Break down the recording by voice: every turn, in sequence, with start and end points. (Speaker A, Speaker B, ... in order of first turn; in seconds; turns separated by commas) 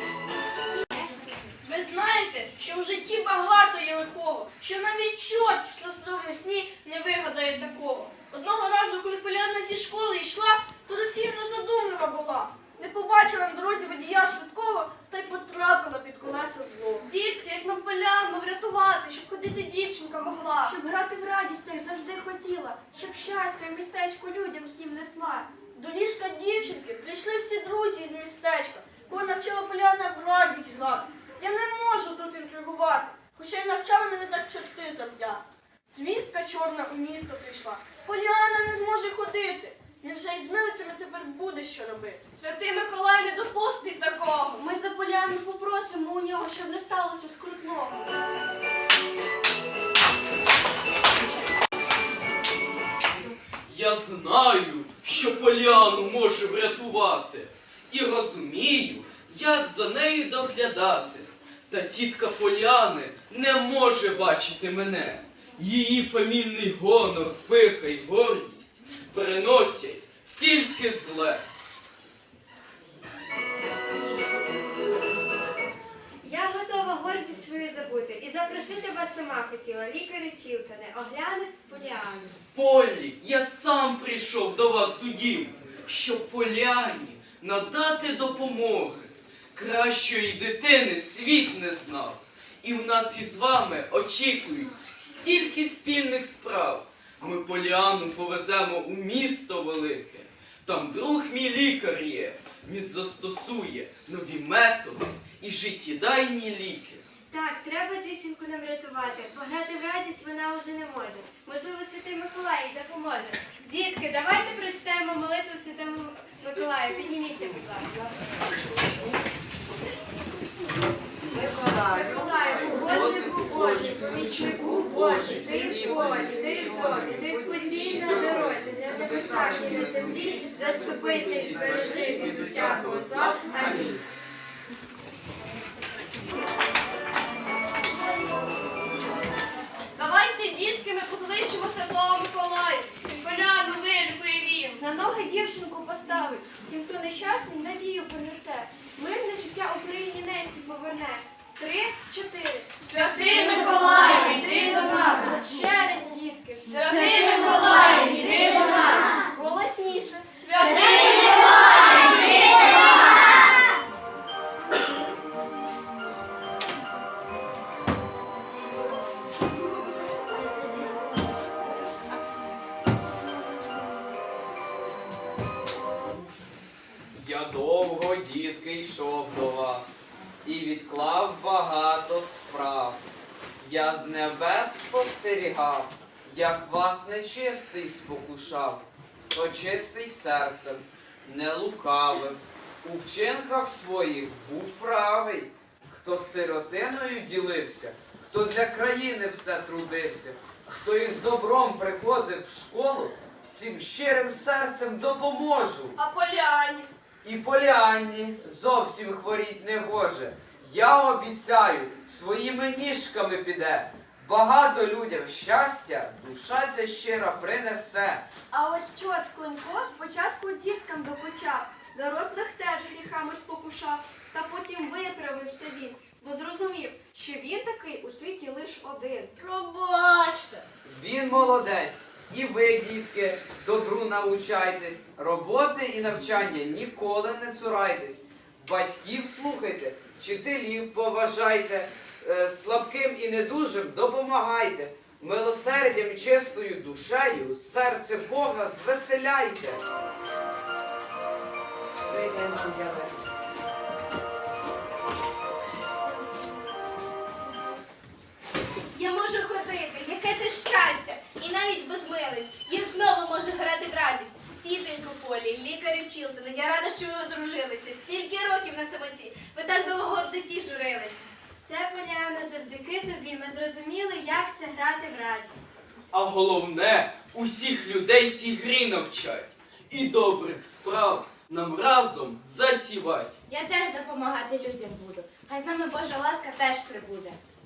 Speaker A: 1.6-17.1, Speaker B: 17.0-25.5, Speaker A: 25.7-42.2, Speaker B: 42.4-48.1, Speaker C: 53.7-71.4, Speaker D: 76.2-82.3, Speaker C: 82.5-107.0, Speaker D: 107.3-118.0, Speaker D: 121.6-134.0, Speaker C: 122.6-127.0, Speaker C: 131.4-134.0, Speaker B: 139.9-162.6, Speaker D: 154.1-155.8, Speaker D: 156.8-158.9, Speaker E: 177.1-179.9, Speaker E: 180.4-183.0, Speaker E: 183.6-206.0, Speaker B: 206.0-206.9, Speaker E: 207.2-218.2, Speaker B: 218.5-229.3, Speaker A: 229.5-230.6, Speaker E: 230.8-249.8, Speaker E: 252.1-253.0, Speaker F: 258.9-271.2, Speaker D: 271.6-275.7, Speaker C: 276.1-283.3, Speaker G: 283.5-287.4